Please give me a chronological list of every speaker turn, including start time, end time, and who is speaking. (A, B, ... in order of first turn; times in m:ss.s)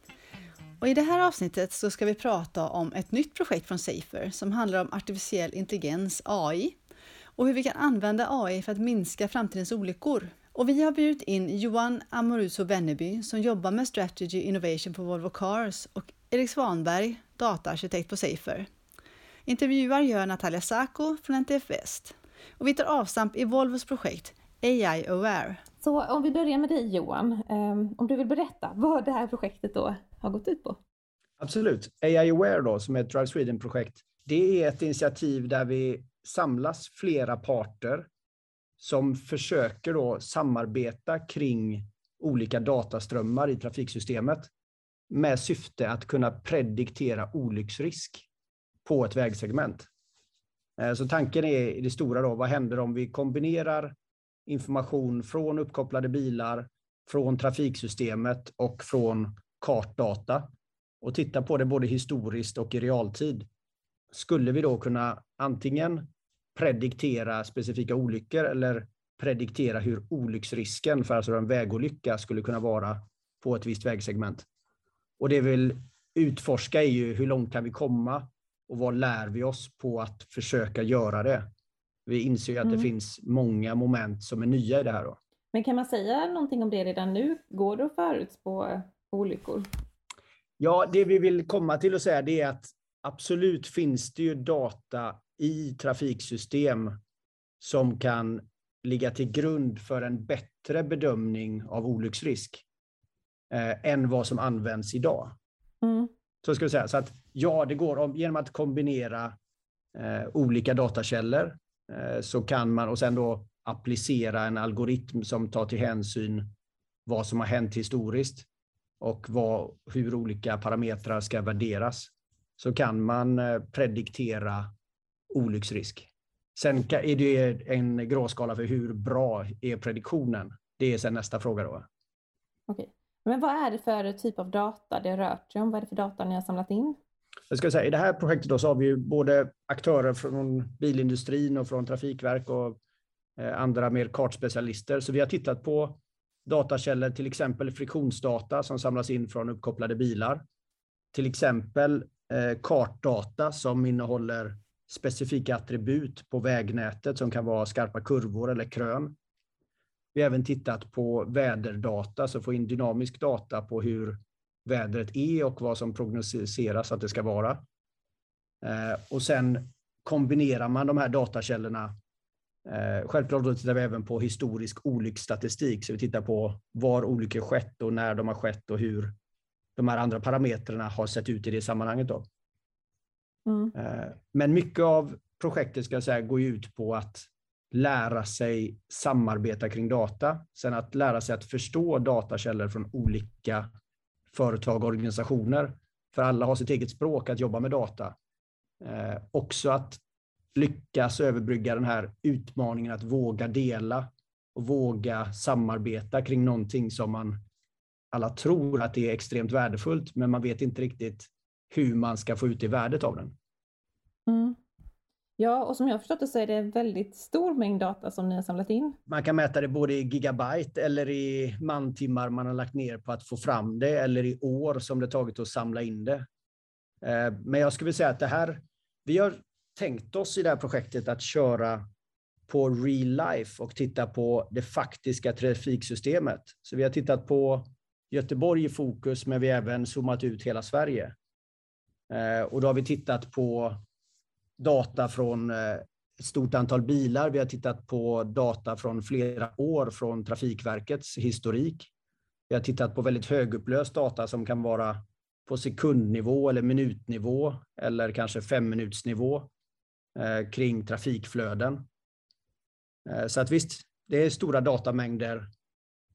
0:00.8-0:06.8 A
0:07.4-0:18.7 A
0:19.5-0:25.6 A
0:25.8-0:30.8 B
0:31.4-0:38.1 C
0:38.8-0:44.5 C
0:45.1-0:48.3 C
0:48.8-0:49.9 C
0:50.8-0:54.0 C
0:54.5-1:00.4 C
1:01.0-1:03.5 C
1:04.1-1:14.5 C
1:15.2-1:21.5 C
1:22.1-1:25.2 C
1:25.5-1:29.7 B
1:30.6-1:37.0 C
1:37.6-1:42.6 C
1:43.5-1:45.4 C
1:45.8-1:46.1 B
1:46.4-1:49.4 C
1:49.9-1:56.5 C
1:57.1-1:58.5 C
1:59.0-2:04.7 C
2:05.3-2:11.9 C
2:12.7-2:17.0 B
2:17.5-2:22.8 C
2:23.4-2:30.4 C
2:31.1-2:39.2 C
2:40.2-2:47.6 C
2:48.6-2:51.9 C
2:52.6-2:59.1 C
2:59.8-3:02.3 C
3:03.5-3:03.7 B
3:03.8-3:13.7 C
3:14.3-3:18.2 C
3:18.8-3:20.0 C
3:20.6-3:27.4 C
3:28.1-3:33.3 C
3:34.3-3:34.6 B
3:35.4-3:39.0 B
3:39.1-3:46.3 C
3:47.0-3:51.8 C
3:52.5-4:01.2 C
4:02.1-4:03.8 C
4:04.6-4:11.9 C
4:12.5-4:19.5 C
4:20.2-4:21.8 C
4:23.1-4:25.5 C